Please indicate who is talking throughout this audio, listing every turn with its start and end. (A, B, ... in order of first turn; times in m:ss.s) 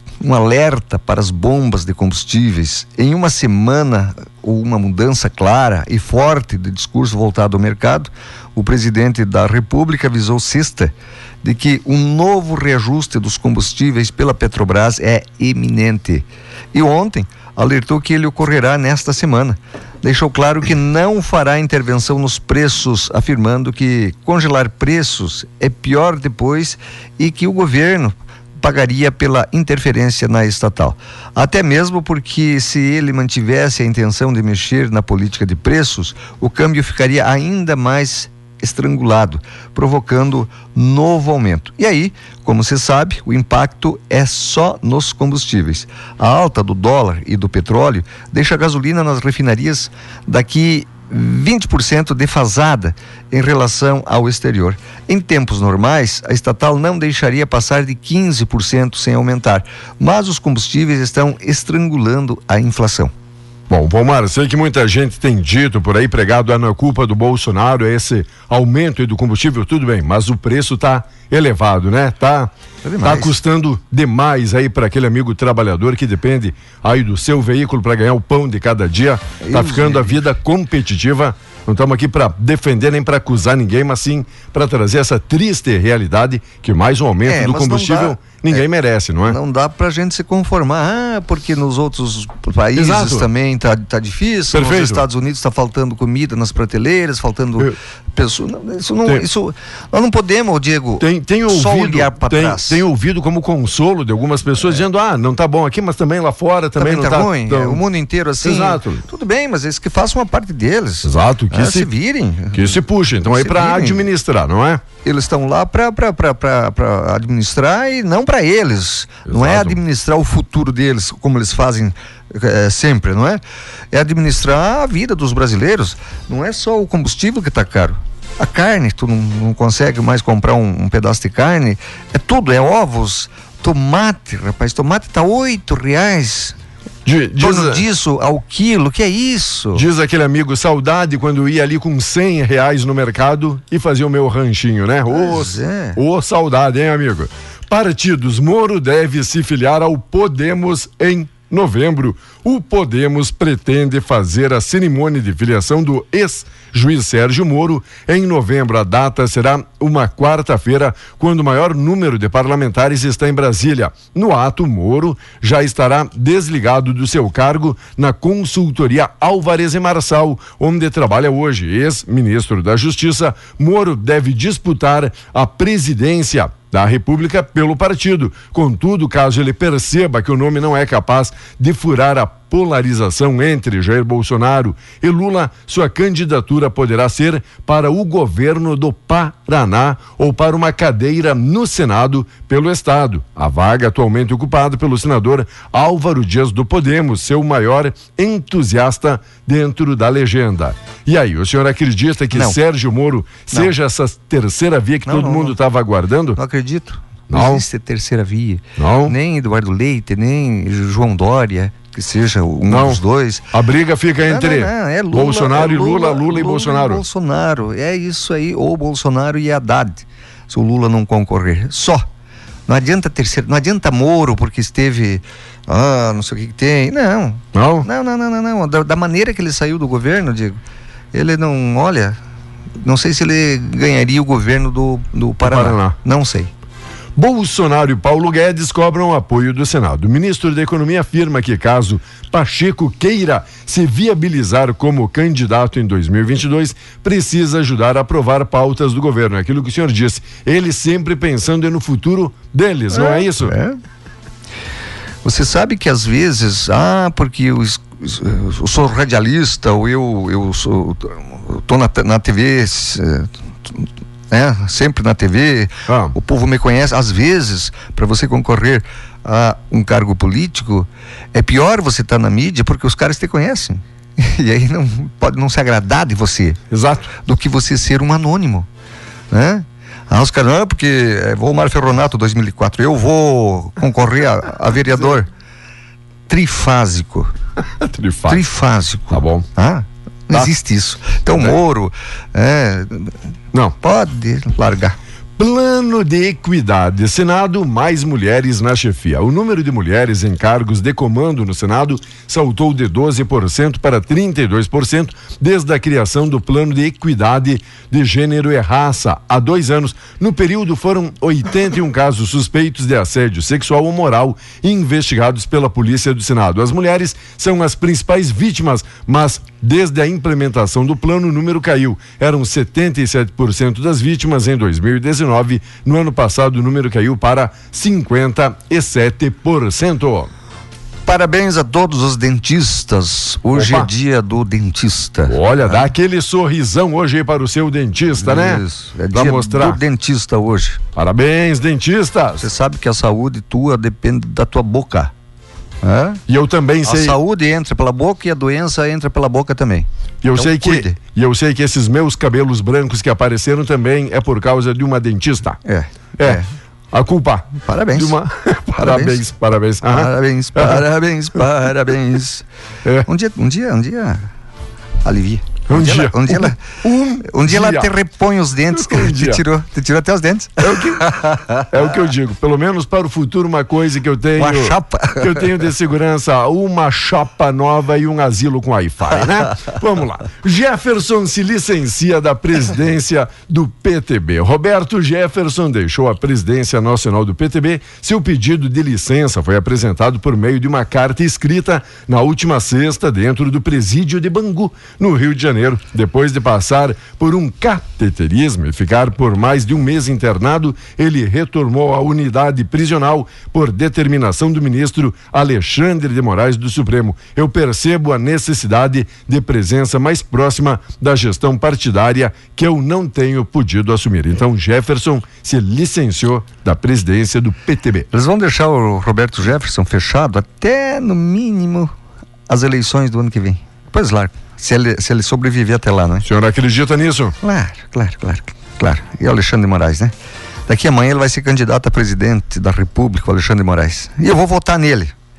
0:00.2-1:03.1 A
1:03.7-1:12.5 B
1:12.8-1:13.3 A
1:13.0-1:29.4 B
1:19.4-1:20.2 A
1:27.3-1:28.6 A
1:29.3-1:42.8 A
1:32.8-1:33.3 B
1:34.5-1:35.0 B
1:41.0-1:47.8 B
1:46.8-1:54.1 A
1:48.4-1:49.0 B
1:51.0-1:51.9 B
1:52.5-1:54.8 B
1:55.0-2:03.4 A
1:59.3-1:59.8 B
2:03.9-2:16.6 A
2:17.0-2:17.8 B
2:17.4-2:19.9 A
2:19.7-3:26.4 B
2:25.1-2:26.0 A
3:25.1-3:25.6 A
3:26.4-3:33.5 A
3:27.3-3:27.6 B
3:28.8-3:29.2 B
3:32.7-3:37.0 B
3:34.2-3:42.0 A
3:42.7-3:50.6 A
3:47.5-3:47.9 B
3:51.1-3:52.2 A
3:52.8-3:56.5 A
3:55.4-3:56.0 B
3:57.2-4:13.6 B
4:12.9-4:13.8 A
4:15.2-4:38.7 A
4:25.9-4:26.2 B
4:36.7-4:37.1 B
4:39.3-4:45.3 A
4:46.3-4:47.3 A
4:47.8-4:48.4 B
4:48.3-4:53.1 A
4:49.1-4:49.5 B
4:53.8-4:55.0 A
4:55.4-5:30.3 B
5:31.1-5:35.9 A
5:33.5-5:33.9 B
5:35.3-5:39.8 B
5:38.2-5:40.8 A
5:41.0-5:42.5 B
5:42.4-5:45.1 A
5:45.8-5:46.2 A
5:46.3-5:47.2 B
5:46.8-5:51.0 A
5:50.2-5:55.6 B
5:55.6-5:56.5 A
5:56.9-6:00.9 B
5:57.6-5:58.2 A
5:58.8-5:59.2 A
5:59.8-6:02.4 A
6:03.1-6:04.3 A
6:05.0-6:06.6 A
6:05.7-6:07.9 B
6:07.2-6:11.7 A
6:08.7-6:09.4 B
6:10.6-6:58.1 B
6:14.4-6:15.6 A
6:58.1-7:01.9 A
7:02.5-7:06.2 A
7:06.2-7:07.4 B
7:07.4-7:10.1 A
7:10.7-7:15.1 A